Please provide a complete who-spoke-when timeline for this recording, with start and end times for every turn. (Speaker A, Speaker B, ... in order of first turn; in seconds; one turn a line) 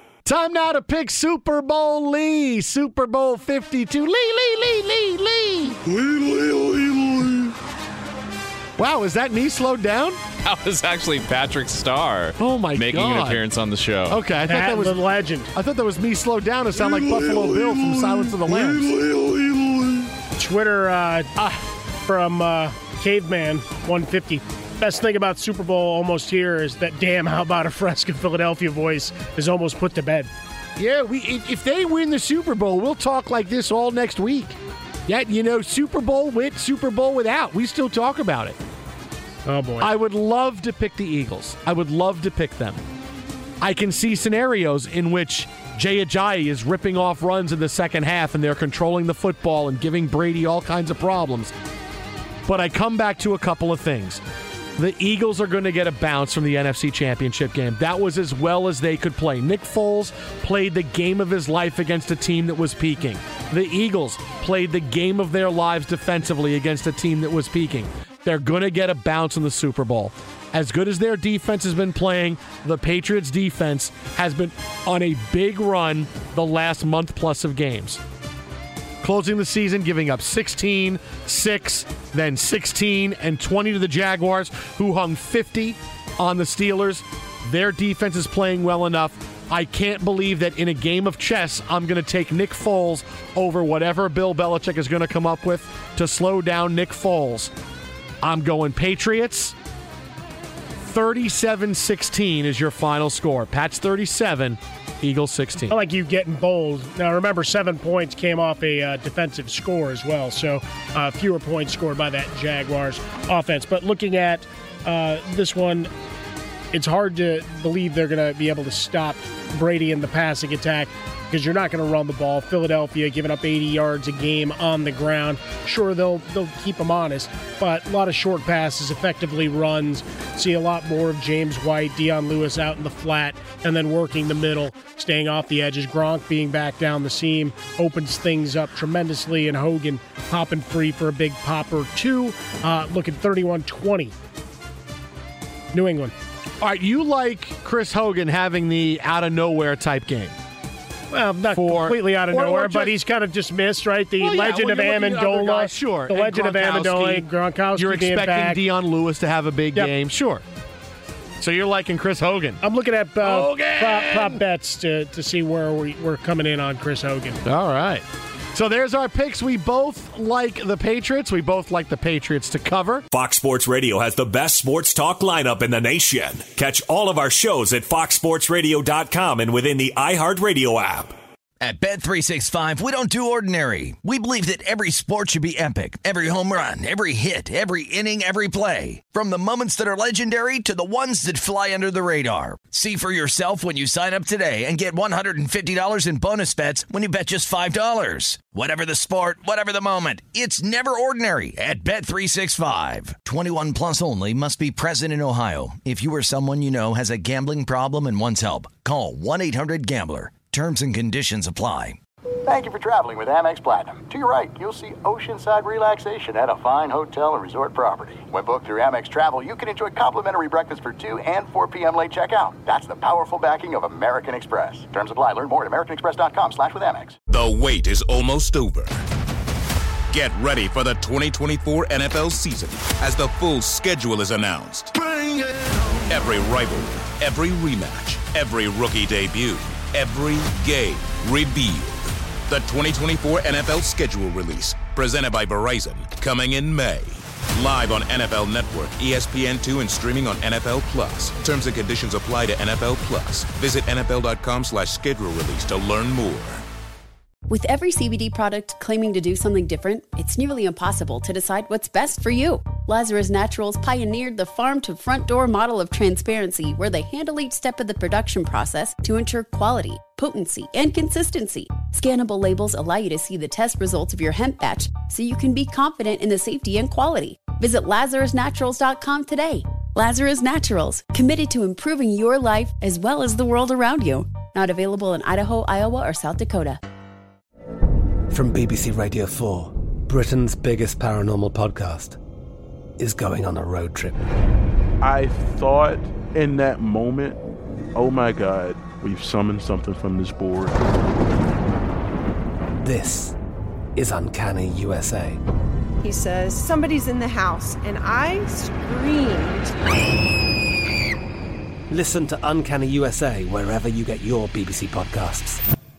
Speaker A: 0.2-7.5
Speaker A: 8.8-10.2
Speaker B: 10.4-14.2
Speaker A: 12.4-13.4
Speaker A: 14.1-15.0
Speaker C: 14.5-15.5
Speaker A: 15.5-19.0
Speaker D: 17.2-17.7
Speaker D: 19.1-19.3
Speaker C: 20.4-21.3
Speaker C: 22.1-30.3
Speaker A: 30.8-38.6
Speaker C: 39.5-39.9
Speaker A: 39.8-42.8
Speaker A: 43.6-51.5
Speaker A: 52.5-54.2
Speaker A: 54.8-78.0
Speaker A: 79.0-97.5
Speaker A: 98.2-99.5
Speaker A: 100.8-105.8
Speaker C: 105.7-115.9
Speaker C: 116.7-144.1
Speaker C: 145.7-146.1
Speaker A: 146.6-150.3
Speaker C: 151.1-158.6
Speaker A: 151.5-152.9
Speaker A: 154.2-160.4
Speaker A: 161.4-162.6
Speaker C: 162.6-167.4
Speaker A: 163.2-164.4
Speaker A: 167.4-173.1
Speaker E: 173.1-181.2
Speaker F: 181.6-212.0
Speaker G: 212.5-227.2
Speaker H: 227.3-229.0
Speaker H: 230.1-234.9
Speaker H: 236.1-256.6
Speaker I: 257.5-286.8
Speaker J: 288.3-292.2
Speaker J: 293.0-294.2
Speaker D: 295.0-300.8
Speaker J: 302.8-303.4
Speaker J: 304.0-305.4
Speaker K: 306.0-309.7
Speaker J: 311.9-315.6